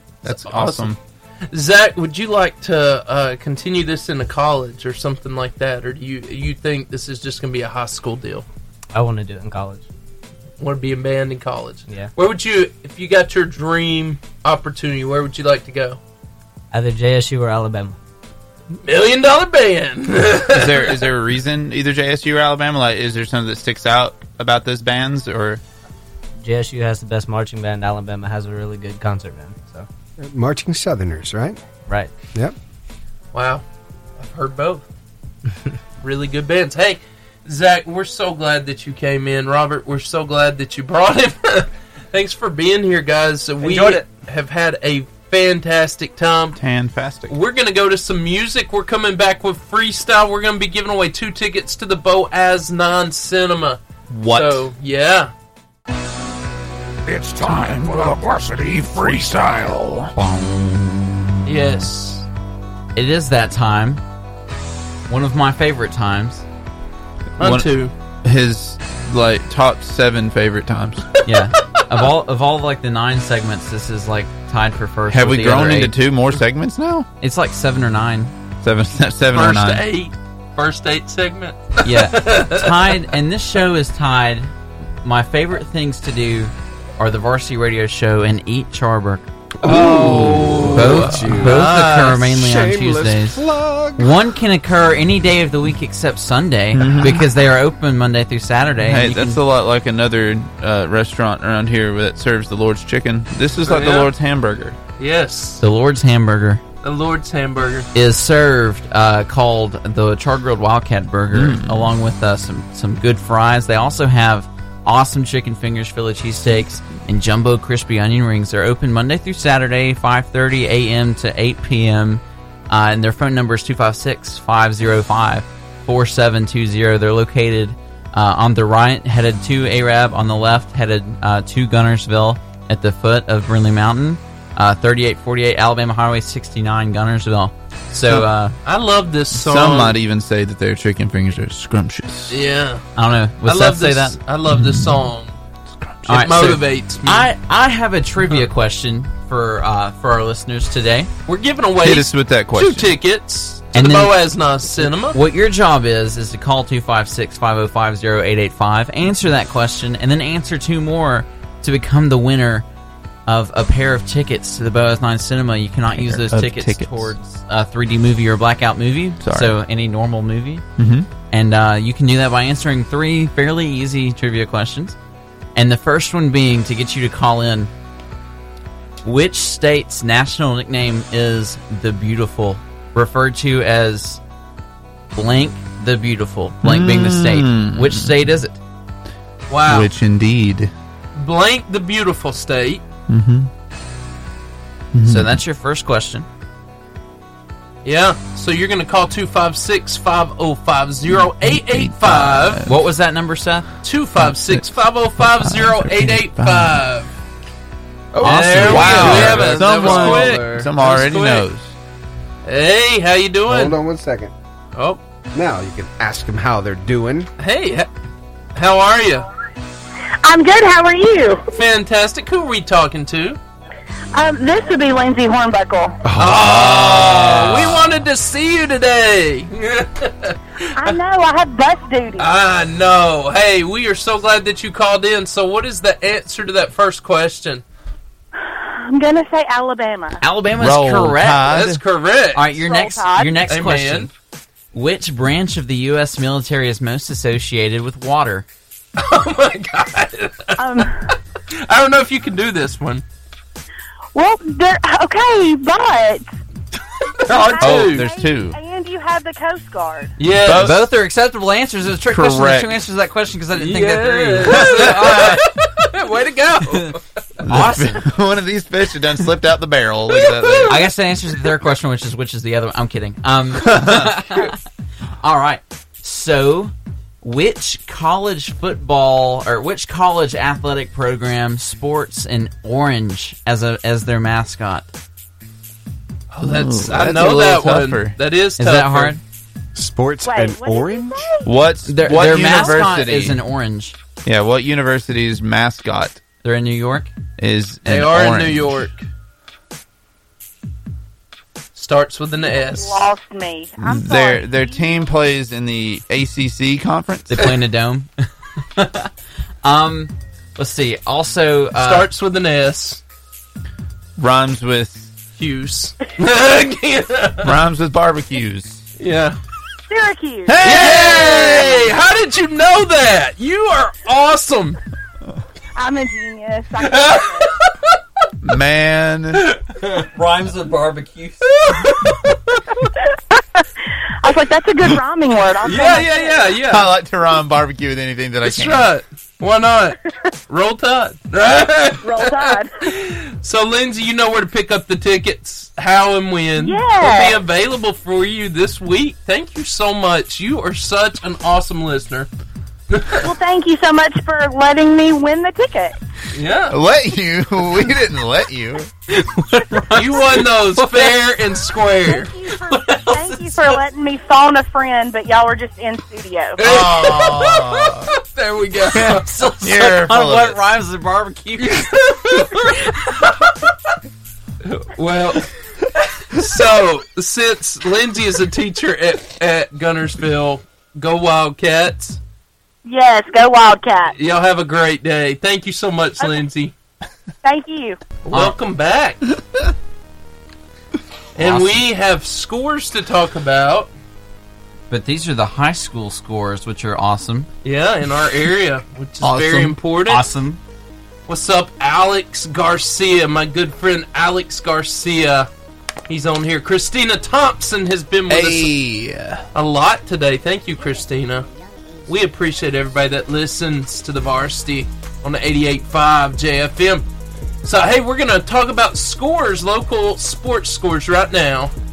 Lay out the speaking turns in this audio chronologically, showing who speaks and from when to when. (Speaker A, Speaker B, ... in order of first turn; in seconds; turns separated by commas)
Speaker A: 0.2-0.9, Speaker B: 0.2-1.0, Speaker A: 1.5-8.4, Speaker C: 8.9-9.8, Speaker A: 10.6-16.0, Speaker C: 16.7-17.9, Speaker A: 18.8-21.1, Speaker B: 20.5-25.6, Speaker C: 26.4-29.9, Speaker D: 30.2-31.6, Speaker C: 31.9-32.1, Speaker A: 33.3-33.6, Speaker A: 34.2-34.9, Speaker A: 36.0-46.6, Speaker B: 46.6-47.3, Speaker A: 47.3-55.3, Speaker B: 54.1-54.7, Speaker E: 57.1-60.1, Speaker B: 57.5-58.1, Speaker B: 60.2-61.1, Speaker A: 61.5-62.3, Speaker F: 63.0-64.0, Speaker F: 65.1-66.5, Speaker B: 67.4-67.7, Speaker A: 67.4-67.9, Speaker B: 68.2-71.2, Speaker F: 71.2-75.9, Speaker B: 75.1-77.1, Speaker F: 77.2-78.3, Speaker B: 78.6-79.8, Speaker A: 79.3-83.0, Speaker F: 81.8-84.5, Speaker F: 85.0-89.3, Speaker D: 89.6-94.2, Speaker A: 89.6-92.2, Speaker B: 89.9-90.8, Speaker F: 90.7-99.4, Speaker B: 96.7-97.3, Speaker B: 98.9-104.8, Speaker A: 103.6-104.1, Speaker A: 105.0-105.6, Speaker F: 105.6-106.6, Speaker A: 106.8-107.9, Speaker F: 107.9-138.6, Speaker B: 111.3-111.9, Speaker A: 138.6-139.9, Speaker B: 139.3-142.4, Speaker A: 142.3-142.8, Speaker F: 142.9-144.2, Speaker A: 143.4-145.4, Speaker B: 144.5-145.1, Speaker B: 145.7-146.3, Speaker A: 146.1-147.3, Speaker F: 146.1-151.1, Speaker A: 151.3-155.2, Speaker B: 151.8-152.9, Speaker F: 153.7-162.6, Speaker F: 163.3-170.6, Speaker B: 165.9-167.1, Speaker B: 169.2-169.6, Speaker B: 170.8-171.1, Speaker F: 171.3-174.9, Speaker F: 175.6-177.7, Speaker F: 179.0-184.2, Speaker F: 185.1-188.6, Speaker B: 186.6-188.2, Speaker A: 189.5-189.9, Speaker B: 189.6-190.7, Speaker A: 191.2-192.8, Speaker B: 193.1-193.5, Speaker B: 194.9-195.4, Speaker F: 195.1-196.3, Speaker A: 197.8-202.6, Speaker B: 201.1-202.7, Speaker F: 202.6-203.7, Speaker A: 203.8-207.1, Speaker B: 204.2-206.8, Speaker B: 208.1-211.7, Speaker F: 208.2-210.6, Speaker A: 208.2-211.4, Speaker A: 212.4-213.8, Speaker D: 213.5-214.3, Speaker A: 214.8-215.0, Speaker D: 215.3-217.3, Speaker A: 217.4-217.9, Speaker A: 218.6-219.3, Speaker G: 220.2-221.4, Speaker A: 221.5-223.4, Speaker G: 224.1-226.0, Speaker D: 226.1-226.5, Speaker A: 226.2-231.0, Speaker B: 226.3-228.0, Speaker G: 230.8-232.3, Speaker A: 232.2-237.6, Speaker G: 238.4-240.2, Speaker F: 240.2-241.4, Speaker B: 240.5-241.8, Speaker A: 241.4-242.5, Speaker F: 242.3-244.1, Speaker G: 242.6-243.4, Speaker A: 243.5-244.1, Speaker F: 244.7-248.4, Speaker A: 249.0-253.0, Speaker G: 250.6-251.0, Speaker G: 254.1-256.2, Speaker A: 257.1-258.1, Speaker B: 257.3-258.6, Speaker G: 257.6-260.2, Speaker A: 260.2-260.7, Speaker B: 260.3-260.9, Speaker F: 260.6-265.5, Speaker B: 262.1-262.7, Speaker A: 263.5-267.0, Speaker B: 264.5-265.4, Speaker B: 267.4-270.9, Speaker F: 267.4-268.1, Speaker A: 270.1-270.8, Speaker F: 270.7-274.6, Speaker B: 273.6-274.1, Speaker F: 275.2-284.9, Speaker A: 286.3-289.1, Speaker B: 286.5-288.2, Speaker F: 288.6-289.2, Speaker D: 289.7-291.3, Speaker G: 290.2-291.5, Speaker B: 291.4-293.4, Speaker F: 291.9-294.0, Speaker G: 292.1-292.8, Speaker B: 294.2-296.2, Speaker F: 296.4-297.2, Speaker B: 297.4-298.9, Speaker A: 297.9-299.1, Speaker A: 301.7-303.0, Speaker G: 302.6-304.9, Speaker B: 303.8-307.6, Speaker F: 307.3-309.1, Speaker F: 309.6-312.1, Speaker A: 311.7-313.0, Speaker B: 314.2-315.1, Speaker A: 315.4-317.6, Speaker B: 317.4-318.8, Speaker A: 319.0-319.4, Speaker G: 319.9-320.7, Speaker B: 320.5-321.9, Speaker A: 320.6-324.8, Speaker G: 325.8-327.5, Speaker A: 326.8-327.9, Speaker B: 328.4-329.5, Speaker A: 329.4-330.0, Speaker F: 329.8-331.5, Speaker A: 331.6-332.4, Speaker G: 333.3-333.6, Speaker G: 334.2-336.4, Speaker A: 335.6-336.9, Speaker B: 336.6-338.9, Speaker A: 338.4-340.0, Speaker A: 340.5-352.3, Speaker G: 342.0-342.7, Speaker G: 346.6-347.4, Speaker A: 352.9-353.2, Speaker G: 353.2-355.9, Speaker A: 356.3-356.8, Speaker B: 356.7-358.9, Speaker F: 359.1-361.2, Speaker A: 359.9-362.3, Speaker G: 362.1-366.6, Speaker F: 362.6-363.8, Speaker A: 366.6-369.3, Speaker B: 366.6-368.1, Speaker F: 368.9-373.2, Speaker B: 369.2-370.6, Speaker A: 371.6-373.5, Speaker A: 374.6-375.5, Speaker A: 376.3-382.2, Speaker G: 382.8-384.1, Speaker A: 384.1-386.7, Speaker G: 386.2-386.5, Speaker G: 387.4-388.0, Speaker A: 388.2-389.2, Speaker A: 391.4-393.9, Speaker F: 391.4-391.8, Speaker F: 394.9-397.5, Speaker A: 397.6-400.2, Speaker B: 399.2-399.8, Speaker F: 400.1-400.6, Speaker A: 401.3-405.5, Speaker A: 406.1-408.8, Speaker B: 408.3-409.4, Speaker A: 409.6-411.5, Speaker A: 412.1-417.1, Speaker A: 417.6-421.7